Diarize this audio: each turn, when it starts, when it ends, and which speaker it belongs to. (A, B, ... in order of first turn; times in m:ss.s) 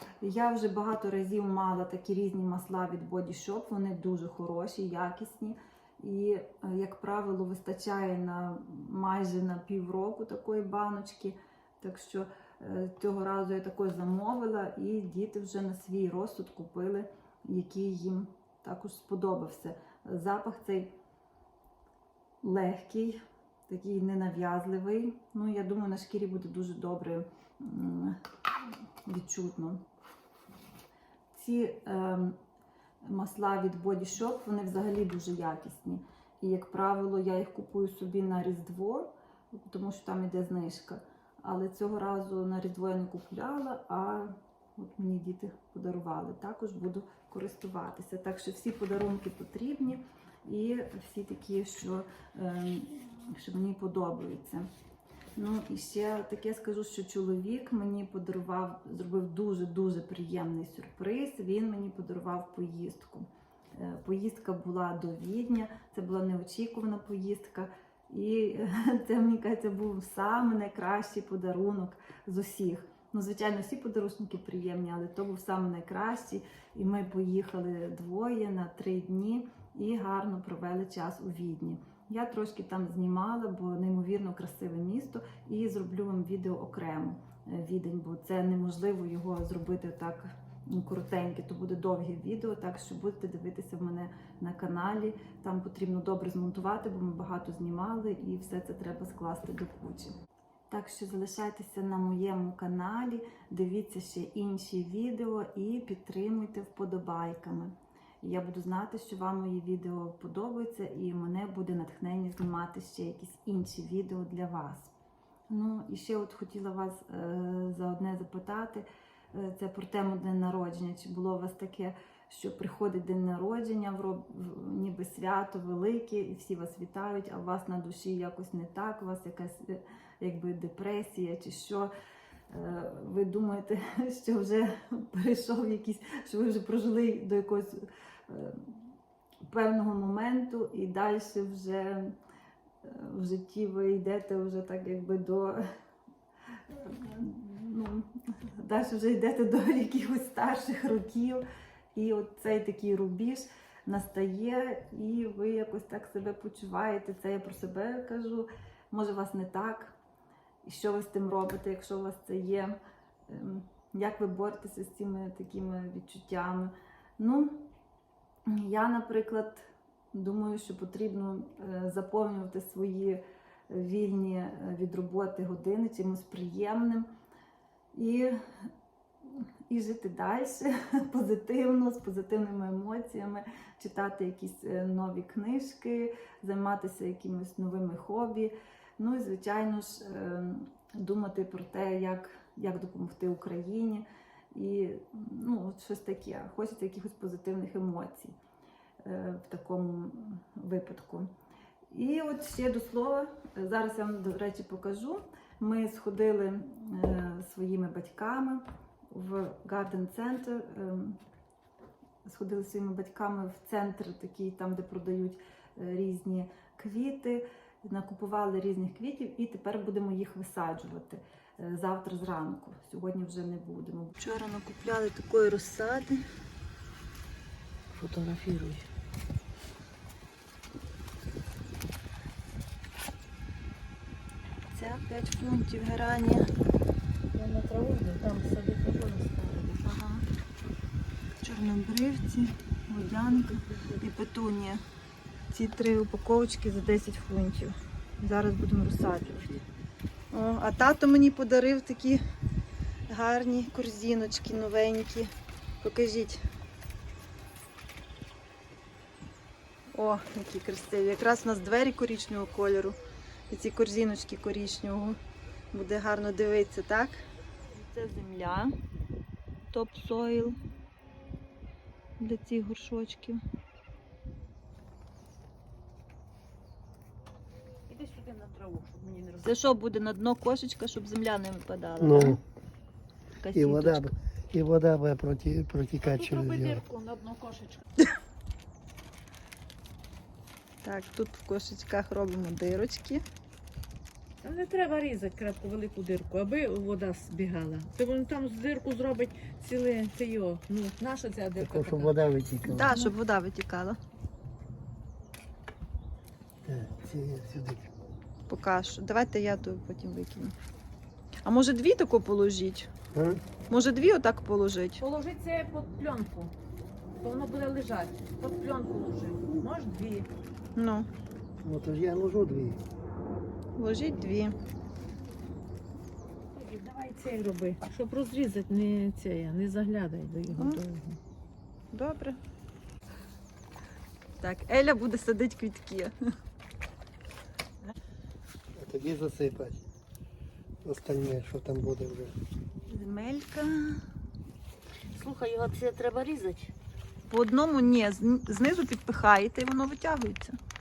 0:00.2-0:20.9 A
0:22.4-0:28.2 A
0:29.0-0:29.8 A
0:31.3-0:32.4 A
0:33.0-0:54.7 A
0:55.4-1:40.1 A
1:40.7-1:54.9 A
1:55.5-2:11.9 A
2:12.5-2:18.9 A
2:19.5-2:22.2 A
2:22.8-2:25.7 A
2:26.7-2:40.0 A
2:40.6-2:47.7 A
2:48.5-2:57.1 A
2:57.9-2:58.7 A
2:59.2-3:18.4 A
3:19.0-3:21.3 A
3:21.9-3:31.2 A
3:32.2-3:46.3 A
3:47.9-3:48.8 B
3:54.7-3:56.5 A
3:57.3-3:59.8 B
3:59.8-4:00.3 A
4:01.4-4:04.8 A
4:03.6-4:04.0 B
4:05.5-4:09.6 A
4:10.3-4:12.2 A
4:13.1-4:16.4 A
4:19.9-4:23.0 A
4:23.5-4:25.2 A
4:25.7-4:28.8 A
4:29.7-4:30.6 A
4:32.2-4:33.4 A
4:37.9-4:39.5 B
4:39.4-4:42.4 A
4:42.0-4:42.4 C
4:43.4-4:44.1 A
4:43.5-4:46.8 C
4:46.0-4:47.8 B
4:50.8-4:53.2 A
4:54.4-5:02.1 B
5:01.6-5:02.9 C
5:02.7-5:04.0 A
5:02.9-5:03.1 B
5:06.6-5:07.9 C
5:08.5-5:10.6 A
5:11.4-5:12.9 A
5:13.1-5:13.4 C
5:13.7-5:15.0 A
5:15.0-5:16.5 B
5:17.2-5:20.3 B
5:20.8-5:21.1 A
5:21.6-5:22.8 C
5:23.8-5:24.6 A
5:26.5-5:31.2 B
5:30.5-5:30.8 A
5:31.9-5:32.4 A
5:34.4-5:36.2 A
5:38.8-5:39.8 C
5:40.8-5:42.4 C
5:42.9-5:44.0 A
5:45.1-5:46.7 B
5:47.3-5:50.6 A